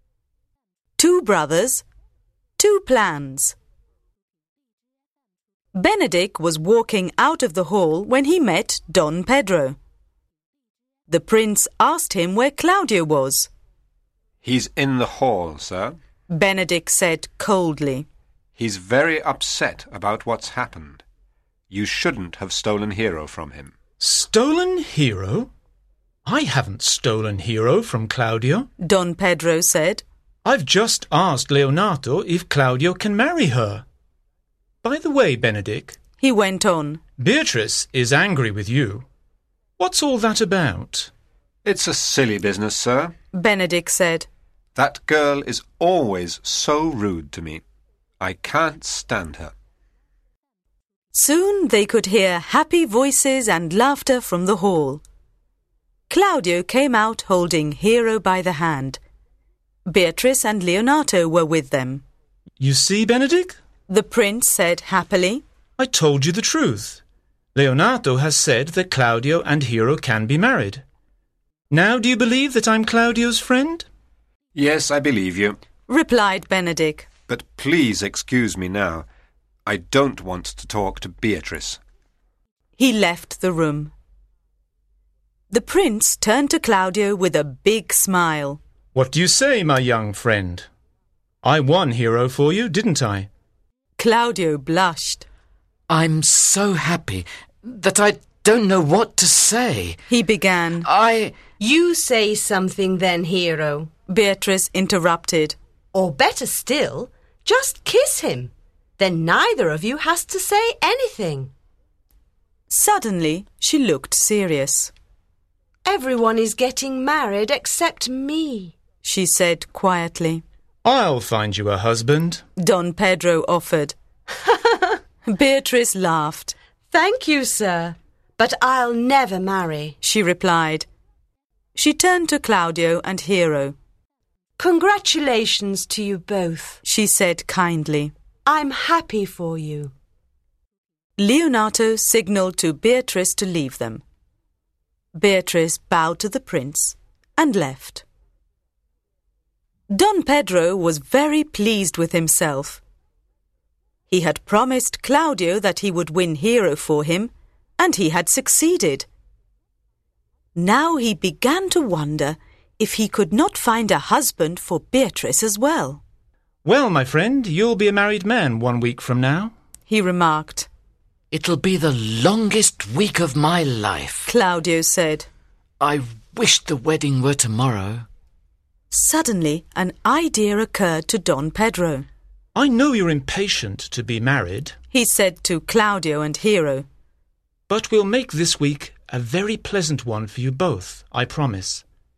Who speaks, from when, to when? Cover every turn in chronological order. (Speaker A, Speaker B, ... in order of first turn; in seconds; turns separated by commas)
Speaker A: 1.0-1.8, Speaker A: 2.6-3.5, Speaker A: 5.7-9.8, Speaker A: 11.1-13.5, Speaker B: 14.4-16.0, Speaker A: 16.3-18.1, Speaker B: 18.6-21.0, Speaker B: 21.7-23.8, Speaker C: 24.0-25.5, Speaker C: 26.2-28.7, Speaker A: 28.8-30.0, Speaker C: 30.4-33.8, Speaker C: 34.8-36.0, Speaker A: 36.2-37.0, Speaker C: 37.2-39.0, Speaker C: 39.8-41.1, Speaker B: 41.6-43.1, Speaker A: 43.3-44.3, Speaker B: 44.7-47.6, Speaker B: 48.2-49.5, Speaker A: 51.1-55.0, Speaker A: 56.1-59.0, Speaker A: 59.9-62.0, Speaker C: 62.6-63.5, Speaker A: 63.9-65.4, Speaker C: 65.8-67.0, Speaker C: 67.5-70.8, Speaker C: 71.7-73.8, Speaker B: 74.5-75.6, Speaker A: 75.9-77.1, Speaker B: 77.3-79.0, Speaker B: 79.7-81.8, Speaker A: 82.8-83.9, Speaker A: 85.5-88.6, Speaker C: 88.9-90.7, Speaker C: 91.4-93.3, Speaker A: 94.0-95.2, Speaker D: 95.9-100.0, Speaker A: 100.1-100.9, Speaker D: 100.8-101.5, Speaker E: 101.6-103.9, Speaker A: 104.1-105.5, Speaker E: 105.9-111.5, Speaker A: 112.7-114.9, Speaker E: 115.8-118.7, Speaker A: 119.0-120.4, Speaker C: 120.8-122.4, Speaker A: 122.6-123.9, Speaker E: 124.5-125.0, Speaker A: 125.3-126.5, Speaker E: 126.9-130.0, Speaker A: 130.0-130.9, Speaker A: 131.7-133.8, Speaker E: 134.6-136.8, Speaker A: 136.8-138.1, Speaker E: 138.4-139.9, Speaker A: 141.2-144.0, Speaker A: 145.1-148.0, Speaker A: 149.9-152.8, Speaker A: 154.1-159.1, Speaker A: 160.5-166.0, Speaker C: 166.6-169.5, Speaker A: 169.9-170.7, Speaker D: 171.3-174.3, Speaker A: 174.2-175.3, Speaker D: 175.8-178.1, Speaker A: 178.9-182.1, Speaker C: 182.5-184.8, Speaker A: 184.9-186.8, Speaker C: 187.7-191.8